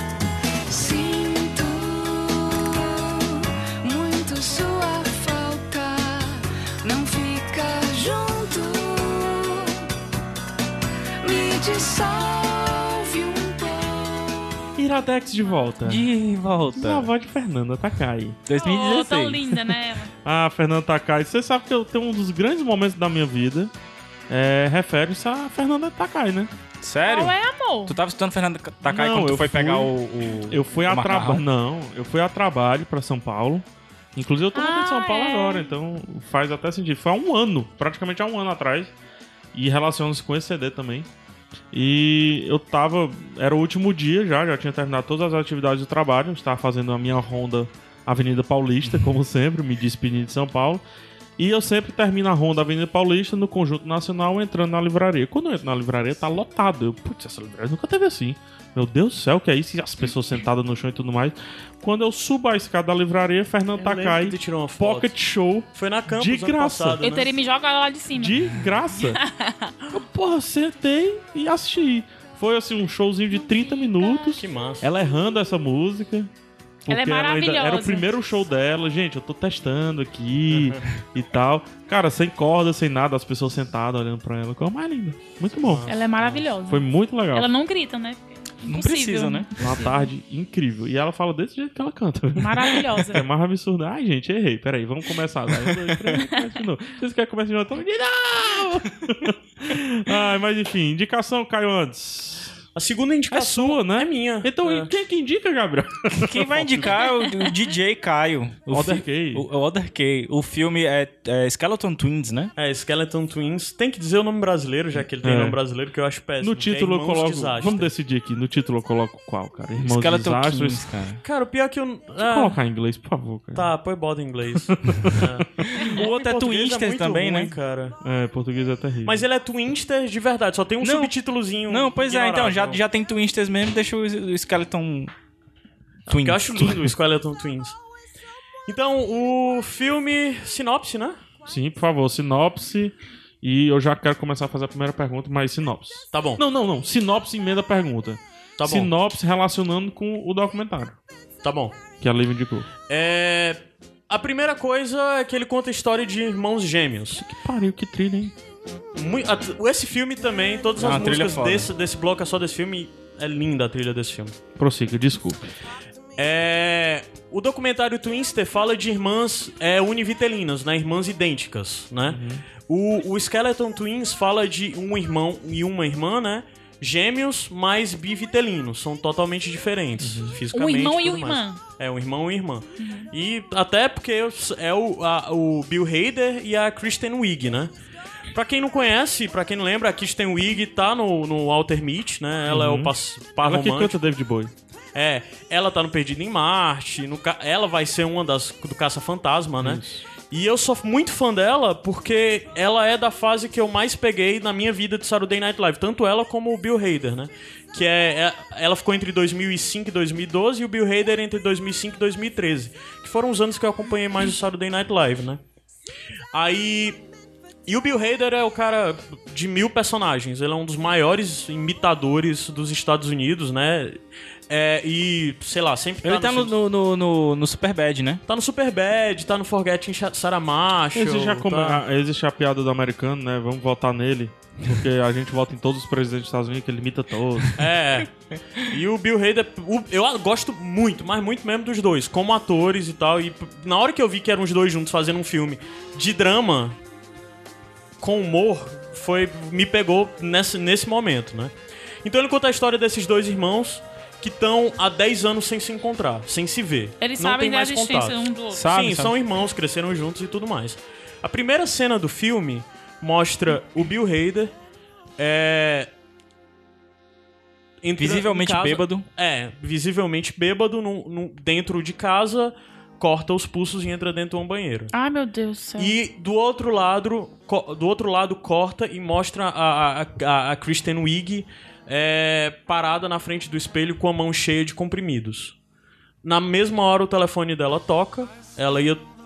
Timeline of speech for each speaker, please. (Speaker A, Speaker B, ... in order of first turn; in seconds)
Speaker A: 0.7-9.8, 11.2-14.6
Speaker B: 14.8-16.1, 16.7-18.4, 20.2-23.7, 24.3-26.5, 28.8-29.9, 30.4-38.9, 39.5-41.1, 41.7-50.8, 51.4-67.0, 68.1-69.2, 69.9-76.3, 76.8-85.9, 86.7-87.5, 89.6-102.6, 103.3-107.1, 108.7-109.5, 115.2-115.6, 116.4-120.8, 122.2-123.7, 124.5-125.9, 128.0-129.2, 141.4-151.0, 152.0-152.7, 157.1-158.3, 164.6-165.5, 172.1-172.4, 180.0-180.4, 192.4-194.5, 199.6-200.0, 230.9-237.7
Speaker C: 15.8-17.1, 18.4-19.6, 26.8-27.3, 27.9-31.4, 88.6-89.5, 106.1-112.5, 119.8-121.2, 125.8-127.5, 130.8-131.1, 131.7-135.1, 136.1-136.9, 160.8-161.7, 226.0-228.2, 258.5-259.1, 268.0-269.1
Speaker D: 18.5-20.1, 27.0-28.0, 34.5-35.7, 67.0-68.4, 69.0-69.7, 73.3-74.4, 76.9-78.1, 85.9-90.1, 92.4-93.2, 180.5-181.6, 182.8-183.1, 257.0-258.6, 274.9-275.9
Speaker E: 63.8-65.1, 65.7-67.3, 74.4-74.9, 80.5-80.8, 85.6-86.5, 102.7-104.9, 112.5-117.9, 121.2-122.6, 123.5-128.0, 129.0-132.8, 136.1-137.8, 138.7-141.2, 146.1-146.4, 148.6-148.9, 151.4-151.8, 152.9-157.2, 158.9-164.4, 166.2-187.7, 188.3-194.0, 194.9-215.4, 216.3-217.0, 217.7-226.5, 228.3-231.8, 237.6-238.1, 238.6-246.8, 248.0-264.5, 265.2-265.9, 267.8-274.9, 275.8-285.5, 286.2-289.1